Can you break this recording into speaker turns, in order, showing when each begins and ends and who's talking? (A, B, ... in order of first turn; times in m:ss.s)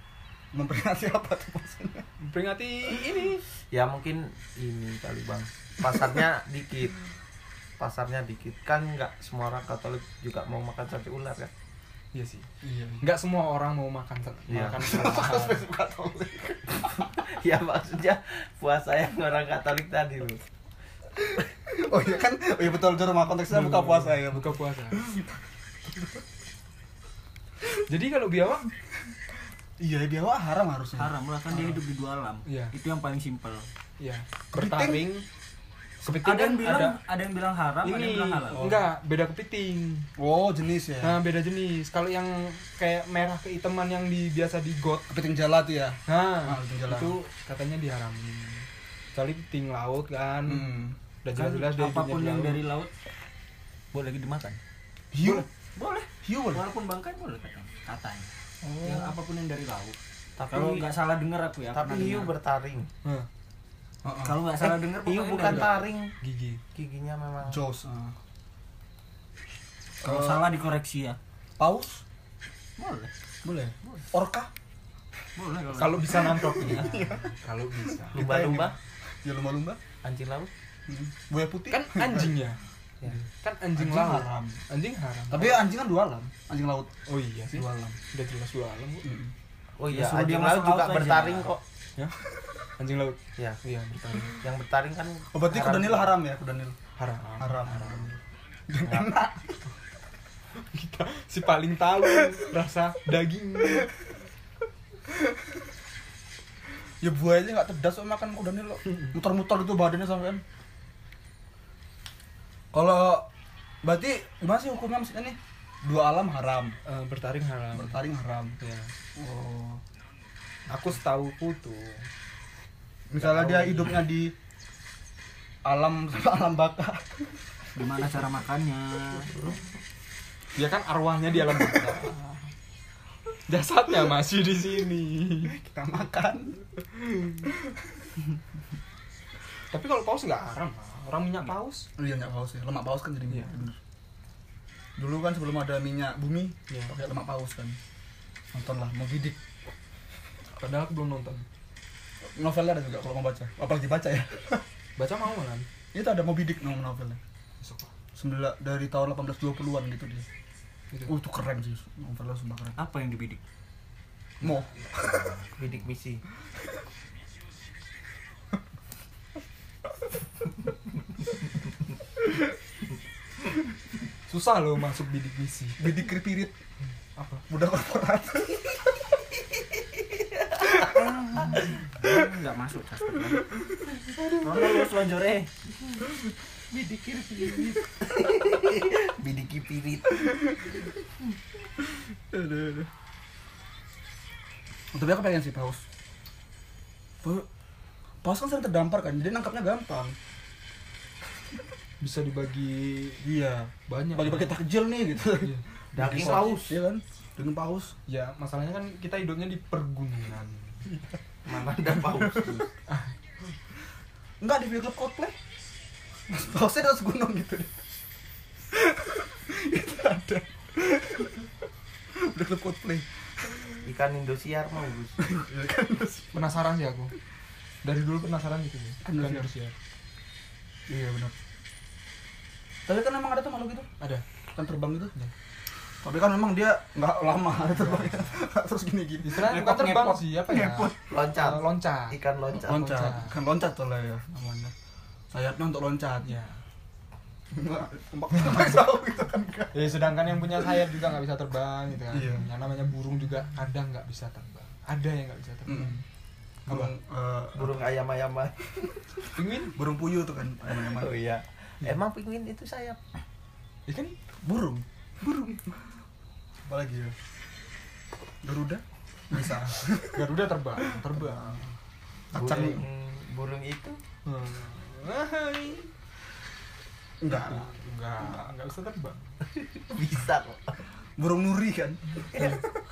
0:00.5-0:02.1 A
0:02.2-0:03.4 B
0:03.7-0:07.0 C
0:07.8-0:11.5 C
0:12.1-0:12.5 B
0:12.6-0:13.0 A
0:13.0-0:15.6 B
0:14.5-0:15.3 C
0:14.8-0:17.1 A
0:16.9-0:20.4 C
0:21.4-0:25.3 A
0:23.5-0:25.1 B
0:27.7-0:28.7 B
0:29.8-0:31.1 A
0:31.0-0:33.7 D
0:32.5-0:32.7 B
0:34.0-0:35.3 B
0:34.5-0:35.0 A
0:36.0-0:37.0 B
0:36.1-0:38.7 D
0:37.8-0:40.1 B
0:38.6-0:38.8 A
0:40.2-0:41.2 A
0:41.0-0:45.1 B
0:45.1-0:47.2 A
0:46.1-0:52.6 B
0:50.5-0:51.0 A
0:51.3-0:52.9 D
0:53.9-0:54.6 D
0:55.1-0:55.5 A
0:55.2-0:58.3 D
0:56.2-0:56.6 A
0:58.8-1:00.0 D
1:00.4-1:00.9 C
1:00.5-1:02.3 D
1:01.7-1:02.9 C
1:04.0-1:04.4 A
1:04.2-1:05.8 D
1:04.6-1:06.1 C
1:05.4-1:06.6 B
1:06.7-1:07.6 C
1:07.4-1:08.1 A
1:10.0-1:10.5 A
1:10.0-1:11.2 D
1:11.6-1:12.0 A
1:12.8-1:13.1 D
1:13.4-1:14.5 A
1:15.4-1:16.9 D
1:15.7-1:18.4 B
1:16.4-1:17.3 A
1:18.1-1:19.8 A
1:18.1-1:18.8 C
1:20.0-1:20.5 C
1:20.9-1:22.4 A
1:21.7-1:22.6 B
1:23.4-1:25.6 B
1:23.8-1:24.6 A
1:25.3-1:26.9 A
1:27.1-1:29.1 B
1:27.5-1:28.0 A
1:29.0-1:29.3 A
1:29.8-1:31.6 C
1:29.9-1:31.5 D
1:32.8-1:34.4 B
1:34.4-1:36.1 C
1:35.3-1:36.8 A
1:37.0-1:38.2 B
1:37.4-1:38.2 A
1:38.7-1:39.6 A
1:38.8-1:39.2 C
1:40.6-1:43.9 B
1:47.0-1:50.4 A
1:52.7-1:53.3 A
1:53.8-1:56.8 A
1:56.8-1:58.0 B
1:57.7-1:58.6 A
1:58.6-1:58.9 B
1:59.2-1:59.8 A
2:00.7-2:02.1 B
2:03.1-2:04.3 A
2:03.2-2:04.1 B
2:05.6-2:07.3 A
2:07.8-2:09.4 D
2:10.6-2:12.1 B
2:13.5-2:15.5 B
2:15.4-2:16.6 A
2:17.1-2:17.4 B
2:19.7-2:21.9 B
2:22.0-2:23.8 A
2:25.0-2:27.8 A
2:28.5-2:29.4 A
2:30.6-2:31.4 B
2:32.2-2:34.6 A
2:35.0-2:35.7 B
2:35.9-2:37.2 A
2:37.6-2:37.9 B
2:38.1-2:40.3 A
2:41.1-2:42.8 A
2:42.8-2:43.4 D
2:44.4-2:45.4 A
2:45.5-2:46.2 C
2:54.3-2:55.9 B
2:55.8-2:56.6 A
2:57.2-2:57.4 B
2:57.5-2:58.8 A
3:00.9-3:03.5 D
3:04.3-3:05.5 D
3:06.7-3:07.8 D
3:08.1-3:10.3 C
3:14.9-3:15.8 A
3:18.2-3:20.2 A
3:22.0-3:23.2 B
3:23.2-3:28.0 A
3:23.9-3:24.6 B
3:25.9-3:26.8 C
3:28.1-3:30.8 B
3:30.9-3:31.2 A
3:31.5-3:32.7 C
3:32.2-3:32.5 A
3:34.4-3:35.4 A
3:36.3-3:37.7 A
3:38.7-3:41.5 A
3:42.1-3:43.0 A
3:43.8-3:45.2 C
3:45.2-3:46.5 A
3:46.3-3:47.1 B
3:47.8-3:49.7 B
3:49.0-3:49.5 A
3:50.9-3:51.3 A
3:52.9-3:53.9 A
3:54.6-3:55.1 A
3:56.0-4:00.3 A
3:57.7-3:58.3 B
3:59.2-4:03.4 B
4:00.4-4:01.0 D
4:01.1-4:02.9 C
4:02.6-4:04.7 A
4:05.3-4:06.4 A
4:06.3-4:06.6 B
4:07.5-4:10.1 A
4:09.7-4:16.0 B
4:12.1-4:12.5 A
4:15.7-4:16.0 A
4:16.7-4:16.9 B
4:16.7-4:17.9 A
4:17.5-4:18.7 C
4:19.4-4:19.8 B
4:19.7-4:21.2 A
4:20.7-4:23.0 C
4:23.9-4:24.2 B
4:24.4-4:25.7 A
4:26.7-4:27.2 A
4:28.4-4:30.3 A
4:30.0-4:31.6 B
4:30.9-4:31.7 A
4:32.3-4:32.8 A
4:32.3-4:34.0 C
4:34.2-4:35.9 B
4:37.2-4:37.7 A
4:37.3-4:39.3 B
4:39.8-4:40.8 C
4:41.2-4:42.5 A
4:42.3-4:42.6 C